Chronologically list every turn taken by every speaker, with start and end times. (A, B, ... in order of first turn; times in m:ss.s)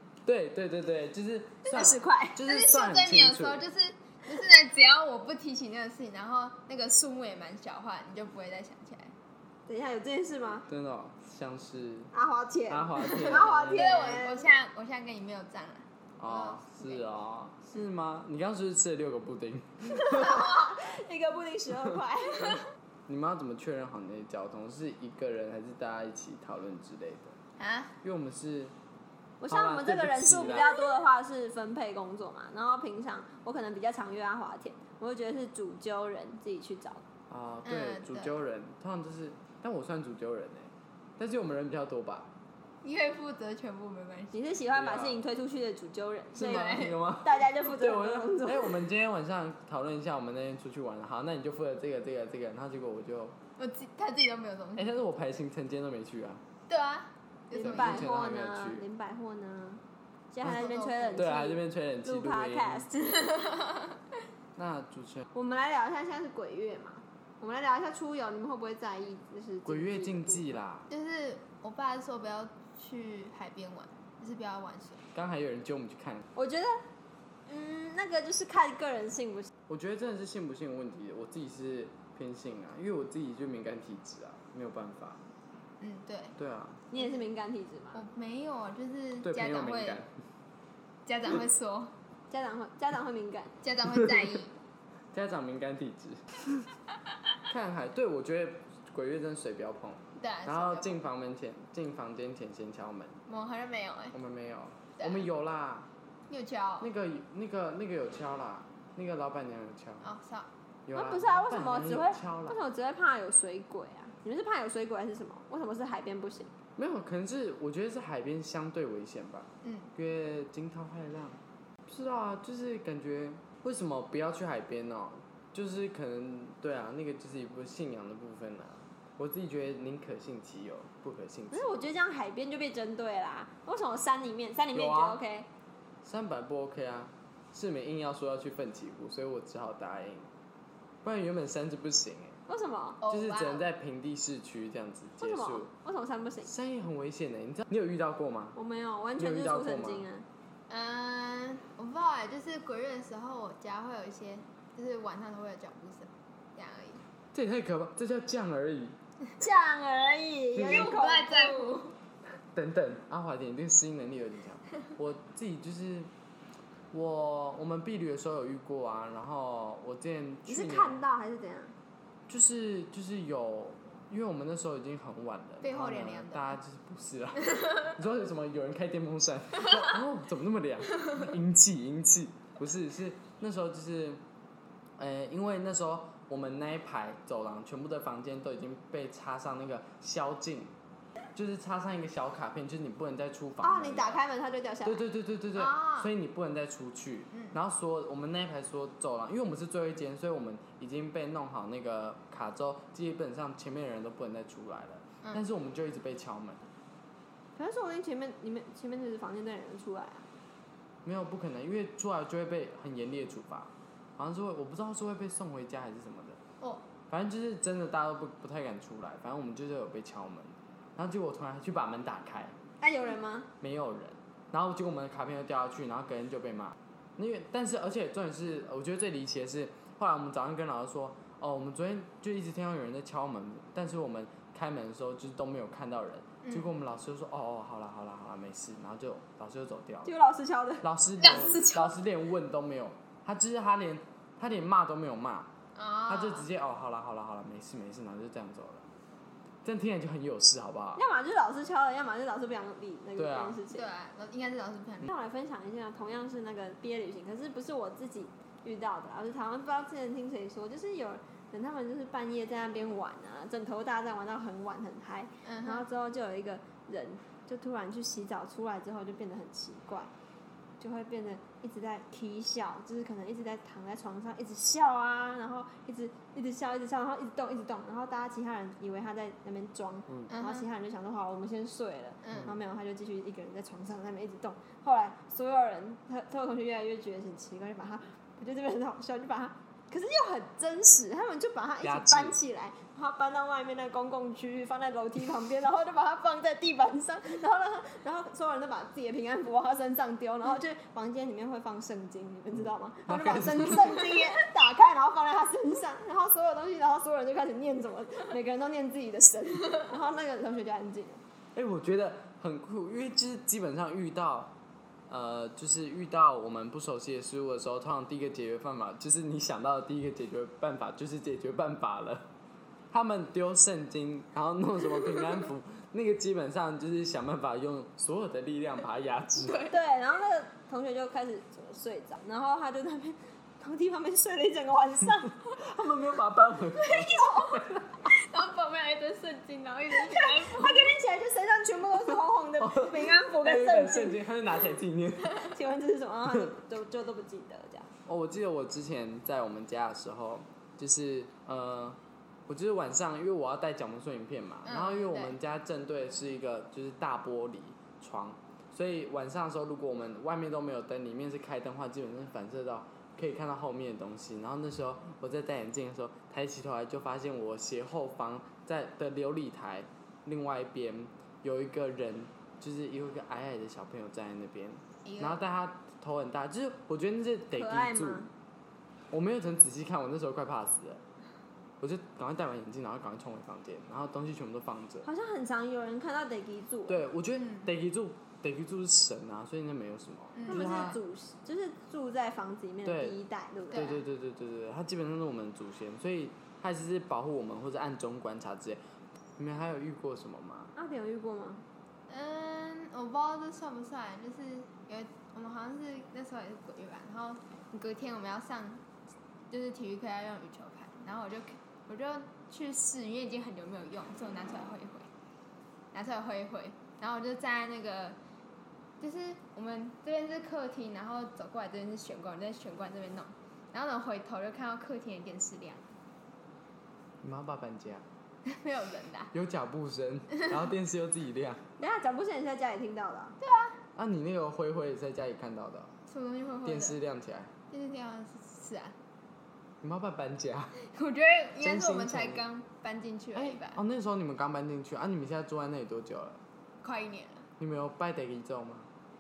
0:00.2-0:03.6 A
0:01.6-0:02.4 B
0:02.5-0:09.1 C
0:09.7-0:10.6 B
0:10.7-0:12.1 A
0:12.1-0:14.5 B
0:12.7-0:14.1 A
0:13.2-0:17.1 C
0:16.2-0:20.6 A
0:19.9-0:22.6 B
0:23.1-0:27.4 A
0:27.6-0:28.0 C
0:28.0-0:28.7 A
0:29.4-0:37.0 B
0:29.5-0:30.7 A
0:37.3-0:42.3 A
0:37.6-0:38.4 C
0:42.8-0:44.5 C
0:44.3-0:48.8 B
0:44.7-0:45.2 A
0:46.4-0:53.4 A
0:46.4-0:47.0 C
0:53.6-0:55.0 C
0:54.8-0:56.4 A
0:56.7-0:58.1 C
0:57.5-0:59.8 B
0:57.6-0:58.8 A
1:00.3-1:03.0 B
1:00.4-1:01.4 C
1:01.2-1:02.9 A
1:03.0-1:04.0 C
1:04.6-1:05.3 A
1:05.3-1:10.5 B
1:09.7-1:10.9 A
1:10.9-1:15.0 C
1:15.1-1:16.3 A
1:16.4-1:16.8 B
1:17.5-1:19.5 B
1:19.7-1:25.2 A
1:25.8-1:26.4 C
1:26.4-1:26.8 A
1:26.9-1:28.0 B
1:27.0-1:27.2 C
1:27.9-1:30.0 C
1:29.2-1:30.1 A
1:31.1-1:31.9 C
1:32.3-1:33.6 B
1:33.6-1:34.5 C
1:35.1-1:36.7 A
1:37.5-1:43.2 A
1:40.2-1:41.0 C
1:43.3-1:44.2 C
1:44.1-1:45.9 A
1:45.0-1:45.2 C
1:46.3-1:46.9 C
1:46.8-1:50.1 A
1:50.0-1:50.5 C
1:50.9-1:52.6 A
1:50.9-1:56.5 B
1:56.8-2:11.9 A
1:59.6-1:59.9 C
2:11.5-2:15.5 B
2:14.7-2:15.2 A
2:16.0-2:20.3 A
2:21.0-2:22.4 A
2:22.5-2:23.0 B
2:23.0-2:23.7 C
2:23.1-2:25.7 A
2:25.2-2:26.5 B
2:26.5-2:28.6 A
2:28.6-2:30.3 B
2:29.2-2:30.1 A
2:30.7-2:37.0 C
2:37.3-2:39.0 A
2:39.4-2:41.8 B
2:40.5-2:40.9 A
2:40.6-2:41.9 C
2:42.5-2:46.1 A
2:46.9-2:51.0 A
2:50.5-2:51.7 B
2:52.3-3:04.2 A
2:55.6-2:56.6 C
2:57.5-2:57.9 C
3:05.0-3:10.7 A
3:11.4-3:14.2 A
3:13.6-3:15.0 B
3:14.8-3:26.6 A
3:15.6-3:16.1 C
3:17.3-3:17.6 C
3:27.6-3:30.3 B
3:31.0-3:36.4 A
3:37.1-3:42.6 A
3:42.8-3:43.5 B
3:43.6-4:00.1 A
3:56.4-3:56.7 C
4:00.0-4:00.9 B
4:00.8-4:05.5 A
4:01.2-4:02.0 C
4:05.8-4:06.5 C
4:06.1-4:08.9 A
4:09.6-4:11.0 A
4:11.0-4:13.9 B
4:13.2-4:13.6 A
4:13.7-4:15.1 C
4:15.0-4:30.1 B
4:25.4-4:25.9 C
4:30.8-5:11.2 B
4:40.3-4:40.7 C
4:42.2-4:42.5 C
4:42.3-4:42.6 A
4:51.8-4:52.4 A
5:02.6-5:04.2 A
5:11.6-5:14.6 A
5:15.1-5:22.3 A
5:22.9-5:29.7 A
5:29.4-5:29.7 C
5:29.7-5:35.4 B
5:35.5-5:37.9 A
5:36.8-5:41.0 C
5:37.1-5:37.6 B
5:40.0-5:44.2 B
5:42.6-5:45.4 A
5:45.5-5:47.9 B
5:48.1-6:18.3 A
5:54.6-5:55.4 C
6:15.0-6:15.4 C
6:17.6-6:18.3 B
6:19.1-6:21.0 A
6:21.8-6:25.1 A
6:25.0-6:27.0 B
6:26.9-6:31.0 A
6:27.4-6:27.7 C
6:30.4-6:31.0 C
6:30.5-6:34.0 B
6:32.8-6:33.2 A
6:33.7-6:38.8 A
6:33.7-6:34.0 C
6:39.4-6:40.7 A
6:40.8-6:41.6 B
6:42.1-6:48.8 C
6:49.5-6:55.1 C
6:55.9-6:58.2 C
6:59.0-7:06.0 C
7:07.2-7:08.0 A
7:08.5-7:09.3 C
7:09.3-7:11.6 A
7:11.8-7:13.4 B
7:13.4-7:13.8 C
7:14.0-7:15.9 A
7:16.1-7:17.0 C
7:16.6-7:17.5 A
7:17.7-7:19.0 C
7:19.8-7:20.8 A
7:20.8-7:23.8 C
7:21.6-7:22.4 A
7:23.4-7:26.4 A
7:26.8-7:27.5 C
7:27.6-7:28.9 A